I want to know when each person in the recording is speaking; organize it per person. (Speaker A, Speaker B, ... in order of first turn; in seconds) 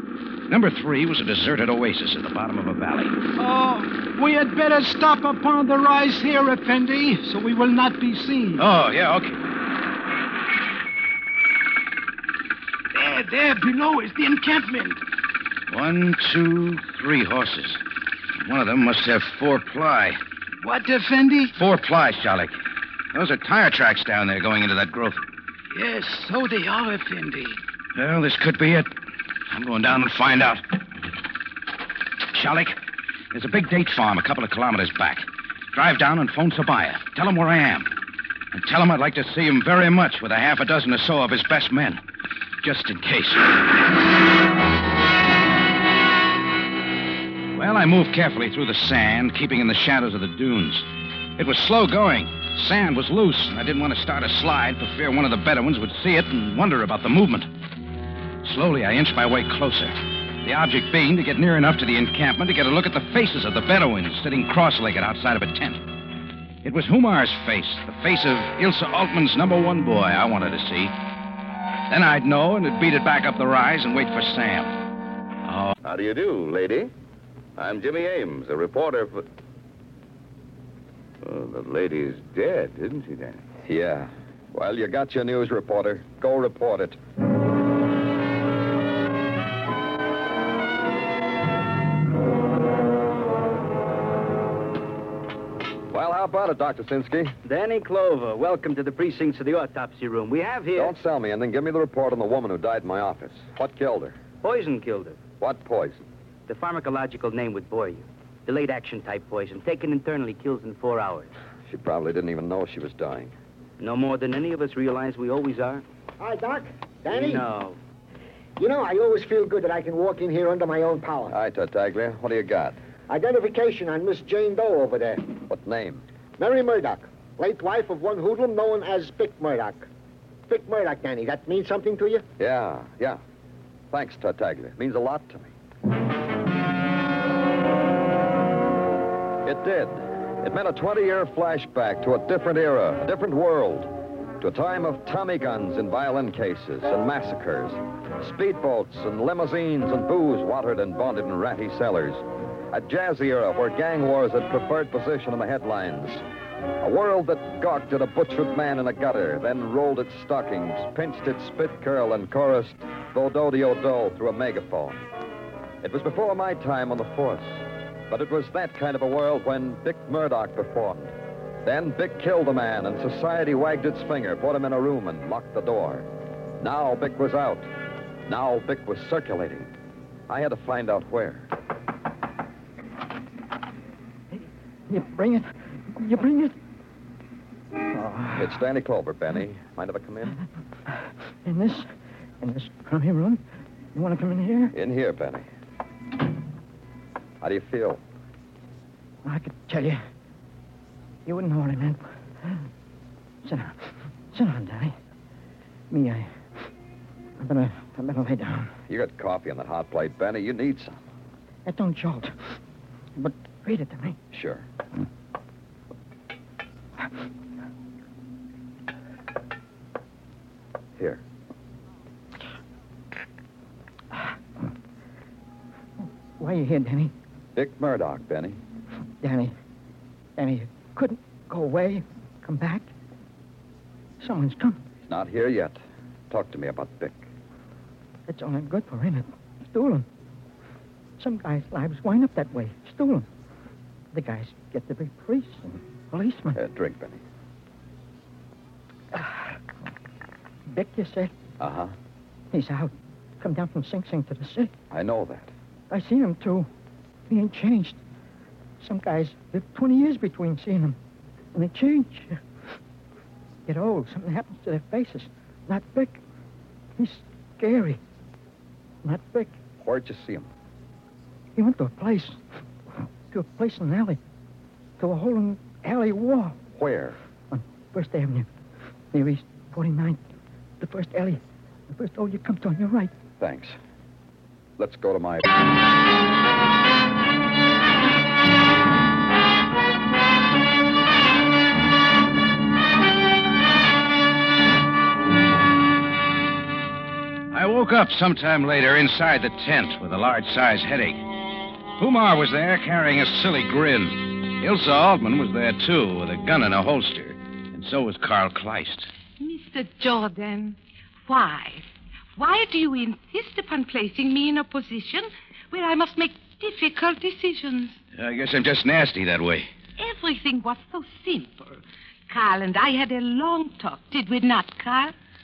Speaker A: 0.5-3.2, 8.6-9.4, 15.7-17.8, 18.4-20.2, 21.5-22.6, 23.1-25.2, 27.9-28.9, 29.5-30.6, 32.3-32.8, 33.3-37.9, 38.5-42.0, 42.6-43.6, 47.5-50.9, 51.4-57.5, 58.4-65.8, 66.6-70.9, 71.9-74.7, 297.5-301.2, 302.0-309.1, 318.1-319.7
Speaker B: 3.4-8.6, 12.9-15.0, 20.6-21.5, 25.7-27.6
Speaker C: 75.8-76.9, 77.6-79.2, 81.2-83.4
Speaker D: 83.6-87.0, 95.9-97.3, 100.7-104.2, 105.3-106.0, 111.7-113.3, 121.3-122.8, 125.4-126.0, 132.4-133.2, 133.9-135.5, 139.4-156.2, 156.8-165.0, 165.8-171.1, 171.6-176.1, 176.6-177.7, 178.3-179.7, 180.3-181.5, 188.3-190.4, 194.7-195.4, 197.4-198.0, 208.9-211.0, 214.3-214.6, 227.6-228.6, 235.1-237.3, 246.5-247.2, 251.6-251.9, 254.9-255.5, 269.7-270.5, 276.7-277.2, 283.4-283.8, 284.8-285.5
Speaker E: 97.4-100.9, 104.4-105.2, 106.5-111.3, 113.8-115.8, 117.1-117.8
Speaker F: 116.2-117.5, 118.6-121.3, 123.1-125.3, 126.4-129.9, 130.5-132.2
Speaker G: 184.3-186.5, 187.9-188.6, 191.4-191.9, 192.4-193.4, 193.9-194.7, 199.2-200.0, 201.2-202.6, 203.4-204.9, 205.9-206.3, 207.4-208.7, 211.7-212.5, 213.2-214.2, 226.4-227.1, 229.2-229.5, 230.4-232.9, 234.2-234.8, 238.3-240.1, 241.2-243.3, 244.1-246.6, 249.1-249.6, 250.7-251.3, 252.5-254.7, 255.9-256.7, 257.3-258.0, 258.8-261.0, 261.5-262.4, 263.7-266.2, 267.0-268.0, 269.0-269.6, 271.6-272.4, 273.3-274.2, 275.0-276.6, 277.5-278.5, 279.1-280.2, 280.8-281.4, 281.9-283.1
Speaker H: 309.4-318.0, 320.0-325.1